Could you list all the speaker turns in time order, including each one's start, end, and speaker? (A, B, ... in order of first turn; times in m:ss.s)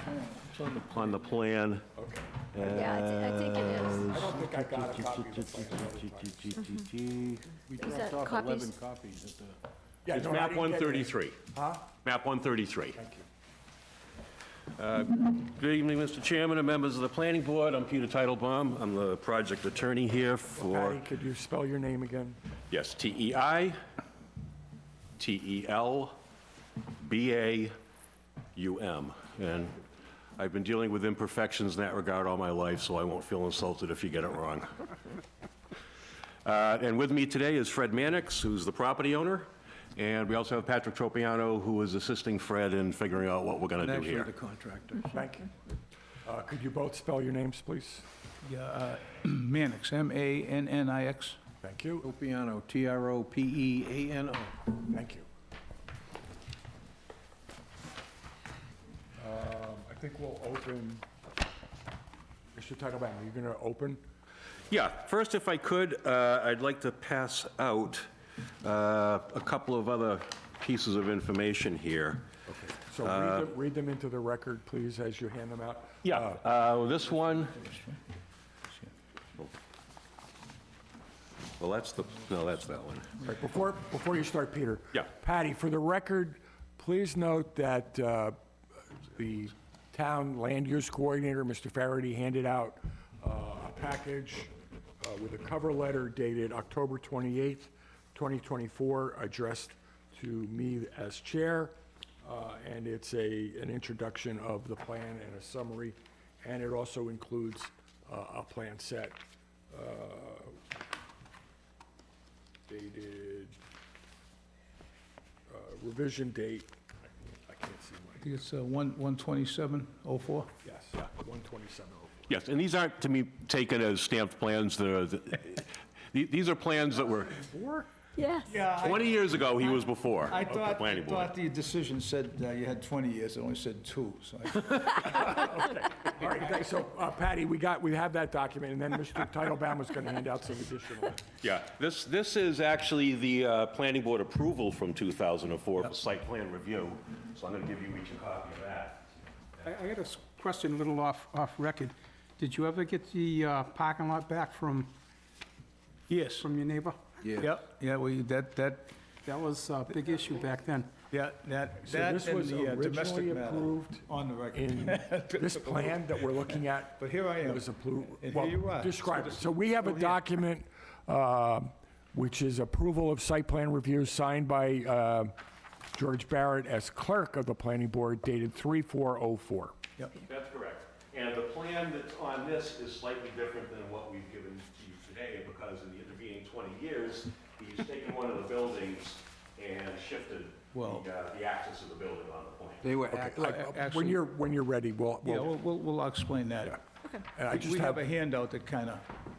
0:00.4-0:00.9 A
0:00.8-0:01.8 B
0:02.0-0:02.5 C
0:02.5-0:04.2 B
0:02.6-0:04.1 D
0:04.0-0:09.6 E
0:04.0-0:06.6 C
0:07.8-0:08.7 D
0:10.0-0:11.9 C
0:10.1-0:11.4 B
0:12.0-0:13.0 B
0:13.0-0:13.3 C
0:14.8-0:21.0 B
0:20.6-0:22.4 C
0:22.7-0:23.8 B
0:25.2-0:26.2 B
0:27.0-0:27.7 B
0:28.6-0:29.8 B
0:30.4-0:34.8 B
0:36.4-0:44.3 B
0:43.8-0:45.1 E
0:45.0-0:45.5 C
0:46.2-0:48.0 C
0:48.4-0:51.4 A
0:51.6-0:52.1 C
0:52.1-0:54.6 E
0:54.8-0:55.3 C
0:59.2-1:01.0 C
1:02.5-1:04.0 C
1:04.7-1:08.1 B
1:08.6-1:12.3 B
1:12.5-1:16.4 C
1:13.0-1:13.5 B
1:16.0-1:17.7 B
1:17.6-1:17.9 A
1:21.6-1:23.2 B
1:23.2-1:28.4 C
1:29.0-1:49.2 C
1:49.7-1:50.6 C
1:52.7-1:53.6 C
1:55.5-1:56.7 C
1:57.5-1:58.2 C
1:58.2-2:00.5 A
2:00.6-2:02.3 C
2:02.3-2:07.4 B
2:07.2-2:07.9 C
2:08.2-2:08.5 D
2:08.5-2:15.4 A
2:08.7-2:11.3 B
2:15.1-2:21.2 C
2:21.4-2:29.0 B
2:29.6-2:34.9 F
2:36.1-2:36.5 A
2:36.4-2:37.0 F
2:37.2-2:37.5 E
2:37.4-2:38.9 A
2:39.2-2:40.9 F
2:41.1-2:50.2 A
2:41.8-2:55.3 C
2:55.9-2:59.8 C
3:00.2-3:12.9 B
3:10.7-3:11.1 A
3:12.8-3:13.4 E
3:13.1-3:15.5 C
3:13.2-3:14.2 A
3:15.2-3:16.8 A
3:17.4-3:18.1 C
3:17.5-3:19.1 A